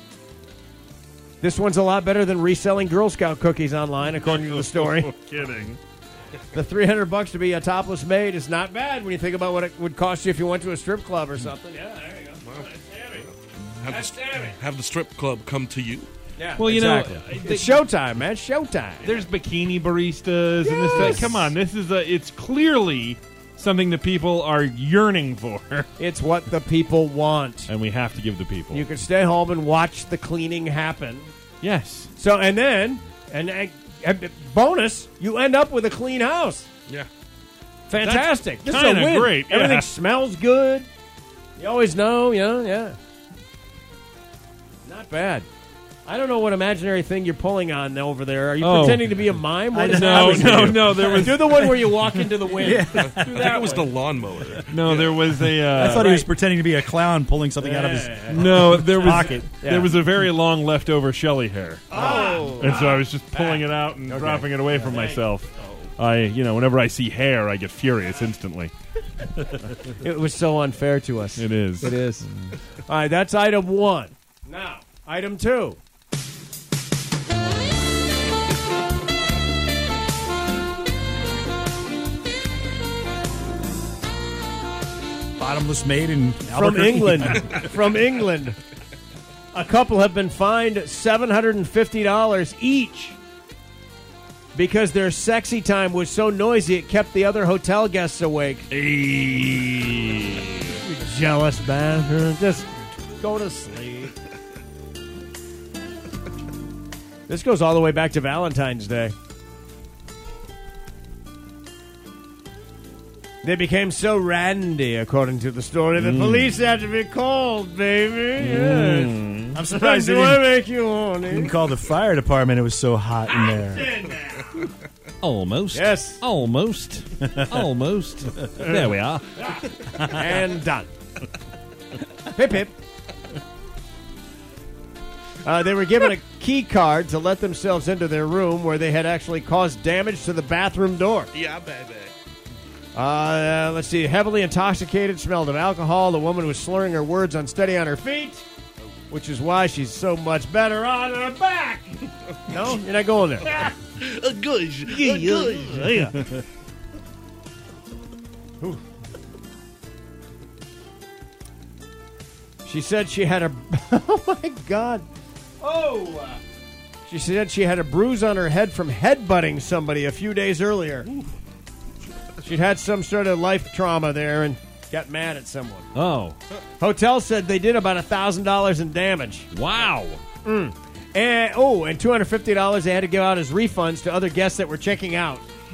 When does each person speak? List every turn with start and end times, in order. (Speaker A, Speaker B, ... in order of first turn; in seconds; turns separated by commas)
Speaker A: 1.4-5.1, Speaker B: 4.2-5.8, Speaker A: 6.5-13.2, Speaker C: 12.4-16.1, Speaker A: 13.8-14.6, Speaker A: 16.4-19.2, Speaker B: 16.6-17.9, Speaker B: 19.0-25.9, Speaker A: 20.6-21.5, Speaker A: 26.0-27.7, Speaker B: 27.7-28.9, Speaker A: 28.7-31.3, Speaker B: 31.6-32.1, Speaker A: 32.2-36.7, Speaker A: 37.9-40.9, Speaker B: 38.0-39.9, Speaker A: 41.6-43.0, Speaker A: 44.9-45.5, Speaker A: 46.1-53.9, Speaker B: 48.6-49.1, Speaker D: 49.7-51.4, Speaker B: 49.9-52.2, Speaker D: 52.6-53.5, Speaker C: 52.9-55.2, Speaker B: 54.7-56.1, Speaker D: 55.7-59.5, Speaker A: 55.8-56.3, Speaker A: 57.6-58.5, Speaker B: 58.3-68.7, Speaker A: 59.6-59.9, Speaker A: 61.9-65.2, Speaker C: 62.0-62.9, Speaker A: 69.9-72.3, Speaker B: 71.4-71.9, Speaker A: 72.9-75.8, Speaker D: 85.4-87.5, Speaker A: 86.5-88.6, Speaker A: 89.5-93.2, Speaker A: 94.5-98.7, Speaker B: 98.7-100.7, Speaker A: 100.7-104.1, Speaker A: 107.3-109.1, Speaker A: 113.4-121.6, Speaker B: 116.0-116.5, Speaker B: 118.4-119.6, Speaker D: 119.5-120.5, Speaker D: 121.3-123.9, Speaker A: 123.3-124.7, Speaker B: 125.2-129.4, Speaker A: 125.7-126.2, Speaker A: 129.4-130.9, Speaker A: 132.3-132.7, Speaker A: 135.4-141.3, Speaker C: 141.3-142.1, Speaker A: 142.9-148.4, Speaker A: 149.1-153.7, Speaker C: 153.6-156.1, Speaker A: 154.9-156.2, Speaker A: 162.7-165.1, Speaker A: 165.6-166.4, Speaker A: 167.1-171.1, Speaker A: 172.4-175.9, Speaker B: 175.9-176.4, Speaker A: 176.8-179.5, Speaker B: 179.5-180.2, Speaker A: 180.4-185.5